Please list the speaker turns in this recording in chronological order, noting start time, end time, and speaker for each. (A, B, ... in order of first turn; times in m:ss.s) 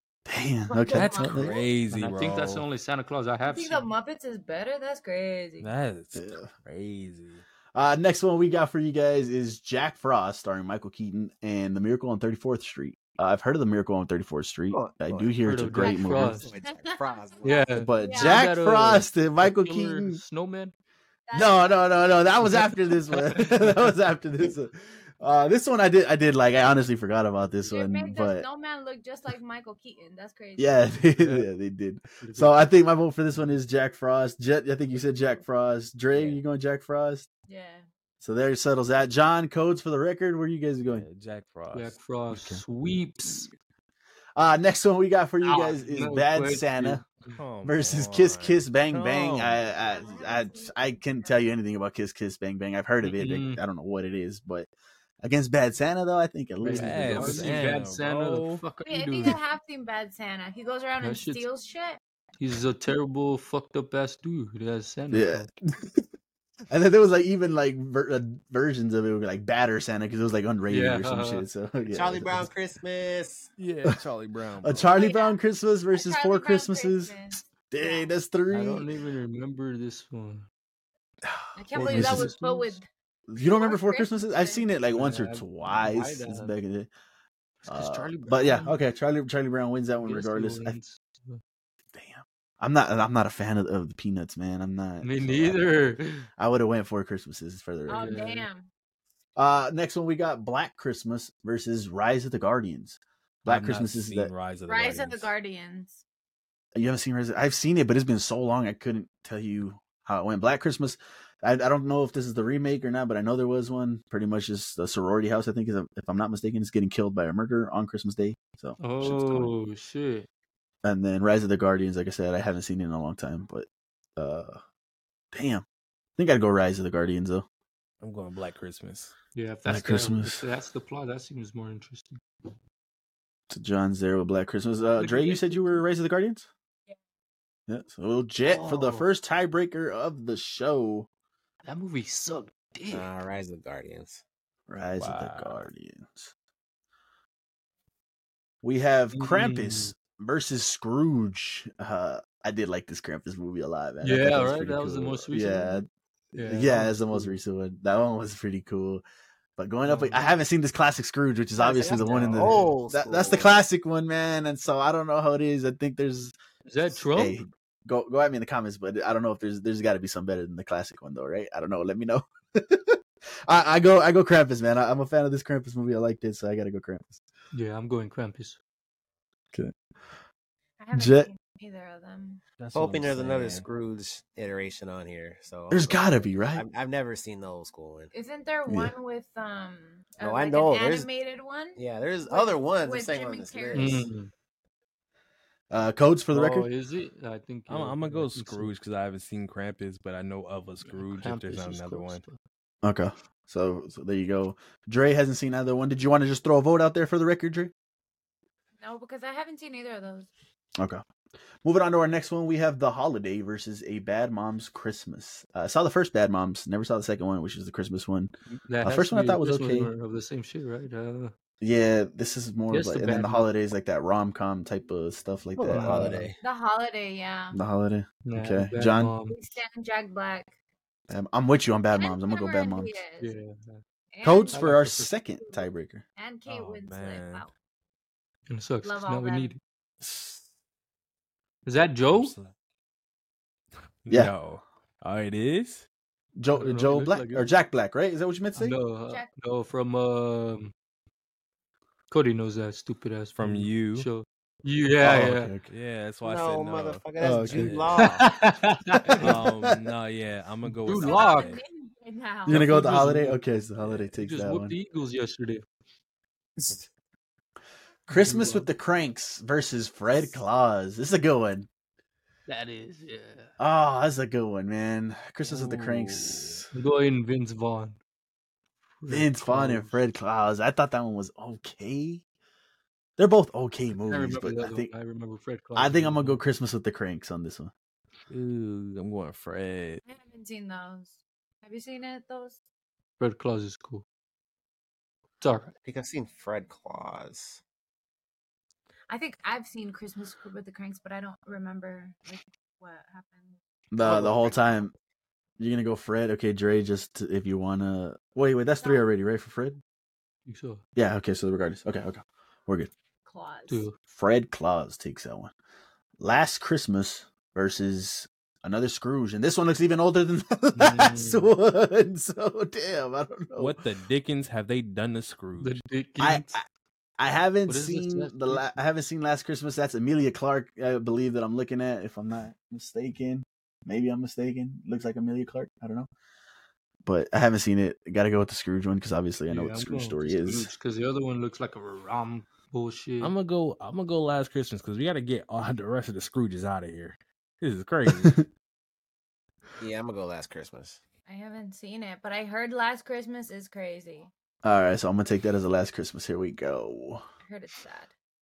0:00.3-0:01.6 A
0:00.7-0:01.7 B
0:00.9-0:02.7 C
0:01.9-0:03.9 D
0:03.4-0:05.7 B
0:05.6-0:07.4 C
0:06.2-0:06.5 A
0:07.7-0:16.4 A
0:14.7-0:15.4 E
0:15.4-0:16.5 D
0:15.8-0:18.5 B
0:16.3-0:17.7 E
0:17.4-0:20.7 D
0:17.8-0:20.2 A
0:21.3-0:22.0 B
0:21.3-0:28.4 A
0:22.4-0:23.8 D
0:27.7-0:31.0 B
0:30.6-0:37.3 A
0:31.2-0:31.5 D
0:32.2-0:32.6 D
0:37.5-0:37.8 B
0:38.2-0:41.1 A
0:40.9-0:42.0 C
0:41.7-0:43.5 D
0:42.3-0:42.6 A
0:44.4-0:47.0 A
0:45.4-0:47.4 D
0:47.3-0:49.6 C
0:47.6-0:54.7 A
0:49.7-0:51.4 B
0:53.0-0:53.6 D
0:55.2-0:57.7 A
0:56.6-0:59.4 D
0:56.7-0:58.6 C
0:58.8-1:02.0 B
1:01.0-1:01.4 D
1:02.4-1:05.5 D
1:05.1-1:06.0 A
1:06.7-1:12.5 A
1:10.7-1:11.5 D
1:11.9-1:13.5 E
1:13.6-1:14.9 C
1:14.6-1:18.9 A
1:14.9-1:15.4 B
1:15.9-1:18.1 B
1:18.5-1:20.5 D
1:21.6-1:22.9 B
1:21.8-1:22.3 A
1:21.8-1:22.8 D
1:23.3-1:26.9 A
1:23.4-1:24.7 B
1:24.9-1:26.6 D
1:27.6-1:28.8 D
1:27.7-1:30.8 A
1:30.0-1:31.4 D
1:31.9-1:35.9 A
1:35.0-1:36.3 D
1:36.4-1:38.2 A
1:37.9-1:38.7 B
1:37.9-1:38.5 D
1:39.4-1:44.3 A
1:43.5-1:45.3 C
1:44.7-1:46.0 B
1:46.8-1:59.5 A
1:58.8-2:00.3 D
2:00.8-2:04.6 A
2:05.3-2:05.6 A
2:06.2-2:07.5 A
2:08.0-2:09.2 C
2:09.4-2:12.2 D
2:09.7-2:10.4 A
2:13.5-2:16.5 A
2:15.0-2:15.8 D
2:17.7-2:21.1 A
2:18.5-2:19.1 D
2:21.6-2:23.1 D
2:22.9-2:24.2 E
2:24.7-2:26.3 A
2:25.0-2:25.6 C
2:28.6-2:35.9 A
2:29.1-2:29.9 D
2:34.0-2:37.4 D
2:36.4-2:39.0 A
2:39.6-2:46.3 A
2:39.8-2:40.3 D
2:41.6-2:43.6 E
2:42.0-2:42.8 D
2:46.7-2:47.4 D
2:46.9-2:57.2 A
2:57.5-2:58.6 D
3:00.8-3:02.4 B
3:00.9-3:01.3 A
3:02.6-3:03.6 C
3:02.7-3:08.1 E
3:05.7-3:06.6 A
3:08.1-3:14.1 B
3:08.7-3:08.9 A
3:10.2-3:11.1 E
3:11.8-3:14.1 E
3:13.7-3:14.3 D
3:15.7-3:16.7 A
3:16.3-3:18.7 D
3:17.7-3:22.2 C
3:20.8-3:22.4 D
3:22.8-3:27.7 A
3:28.8-3:30.3 B
3:31.6-3:39.9 A
3:38.5-3:41.3 D
3:41.6-3:46.3 A
3:42.7-3:43.5 D
3:45.6-3:46.4 E
3:45.7-3:46.3 D
3:46.4-3:47.6 B
3:47.5-3:49.2 A
3:48.2-3:49.4 D
3:49.3-3:50.5 B
3:51.1-3:53.0 A
3:51.9-3:53.4 B
3:53.2-3:53.8 D
3:54.1-3:54.7 B
3:54.2-3:56.0 A
3:54.5-3:55.1 D
3:55.4-3:57.5 B
3:56.5-3:57.5 C
3:58.5-3:59.6 D
3:58.8-3:59.6 B
4:00.0-4:00.4 A
4:01.6-4:02.4 D
4:02.1-4:02.5 C
4:04.0-4:05.9 C
4:04.1-4:04.3 A
4:06.4-4:08.8 A
4:06.5-4:07.5 D
4:08.6-4:10.7 D
4:12.1-4:15.5 D
4:13.4-4:14.1 C
4:15.0-4:15.6 A
4:15.7-4:18.1 C
4:16.2-4:18.2 E
4:17.2-4:17.8 A
4:18.0-4:19.5 D
4:19.1-4:19.9 A
4:19.1-4:21.6 C
4:20.8-4:21.6 D
4:20.9-4:22.8 B
4:22.5-4:23.4 D
4:22.5-4:24.8 A
4:24.2-4:25.7 D
4:28.1-4:31.7 A
4:28.1-4:28.7 D
4:32.5-4:33.5 D
4:33.6-4:36.7 A
4:35.4-4:36.6 C
4:36.7-4:38.0 D
4:39.0-4:40.0 D
4:39.1-4:42.2 A
4:43.2-4:44.9 A
4:44.0-4:46.4 D
4:45.8-4:47.7 A
4:48.3-4:50.0 C
4:50.0-4:52.6 B
4:53.2-4:54.0 D
4:55.4-4:55.7 D
4:55.8-4:57.6 E
4:59.1-5:03.6 B
5:03.9-5:04.9 A
5:04.0-5:04.5 D
5:05.6-5:09.8 A
5:08.8-5:09.1 B
5:10.5-5:10.8 D
5:11.0-5:12.9 A
5:13.3-5:13.9 B
5:13.7-5:14.0 D
5:14.1-5:15.5 A
5:16.2-5:23.8 A
5:20.8-5:21.5 D
5:23.6-5:25.8 C
5:25.6-5:26.6 D
5:26.2-5:26.6 A
5:27.2-5:36.1 A
5:27.7-5:28.7 D
5:37.0-5:40.7 A
5:39.5-5:43.3 D
5:43.2-5:48.4 C
5:48.1-5:48.5 A
5:49.8-5:51.0 E
5:51.3-5:54.3 B
5:54.6-5:57.2 A
5:57.4-5:58.1 B